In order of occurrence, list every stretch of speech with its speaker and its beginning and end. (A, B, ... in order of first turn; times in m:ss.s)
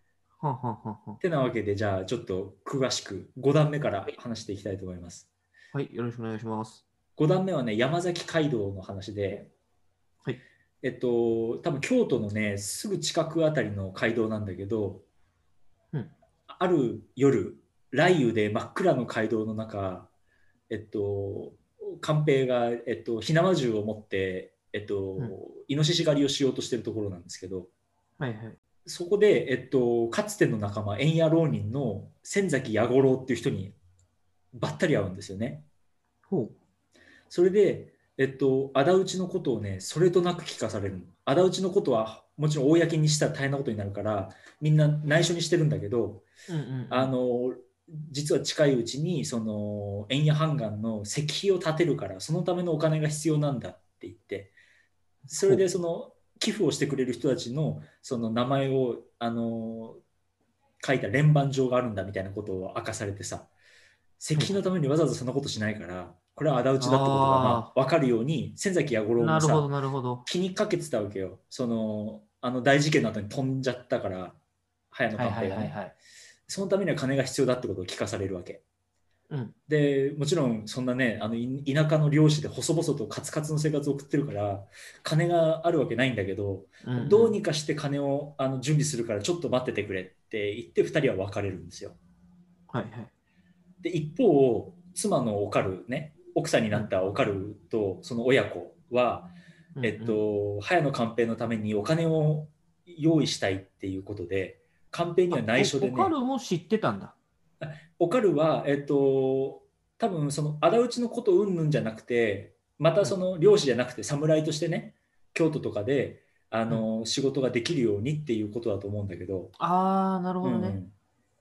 0:00.4-0:01.2 A
0:01.2-0:05.3 B
0:05.7-0:06.8 A
0:07.2-0:09.5 B
0:10.8-0:15.0 B
0:16.5-0:20.1 B
0:20.7-0:27.7 B
0:28.2-0:28.6 A
0:28.8-0:33.7 B
0:34.5-0:35.6 B
0:36.3-0:36.5 A
0:37.3-0:46.2 B
0:46.5-0:47.1 A
0:46.9-0:54.5 B
0:55.3-1:00.0 B
0:55.4-0:55.6 A
1:00.8-1:03.5 B
1:04.2-1:09.7 B
1:06.8-1:07.7 A
1:09.2-1:10.2 A
1:10.2-1:14.4 B
1:14.9-1:15.8 B
1:15.2-1:15.9 A
1:16.5-1:18.6 B
1:19.3-1:19.5 A
1:19.7-1:32.0 B
1:26.8-1:27.4 A
1:32.7-1:33.1 A
1:33.8-1:46.1 B
1:39.8-1:40.2 A
1:45.3-1:47.1 A
1:47.6-1:59.5 B
1:59.6-2:00.8 A
2:00.4-2:00.9 B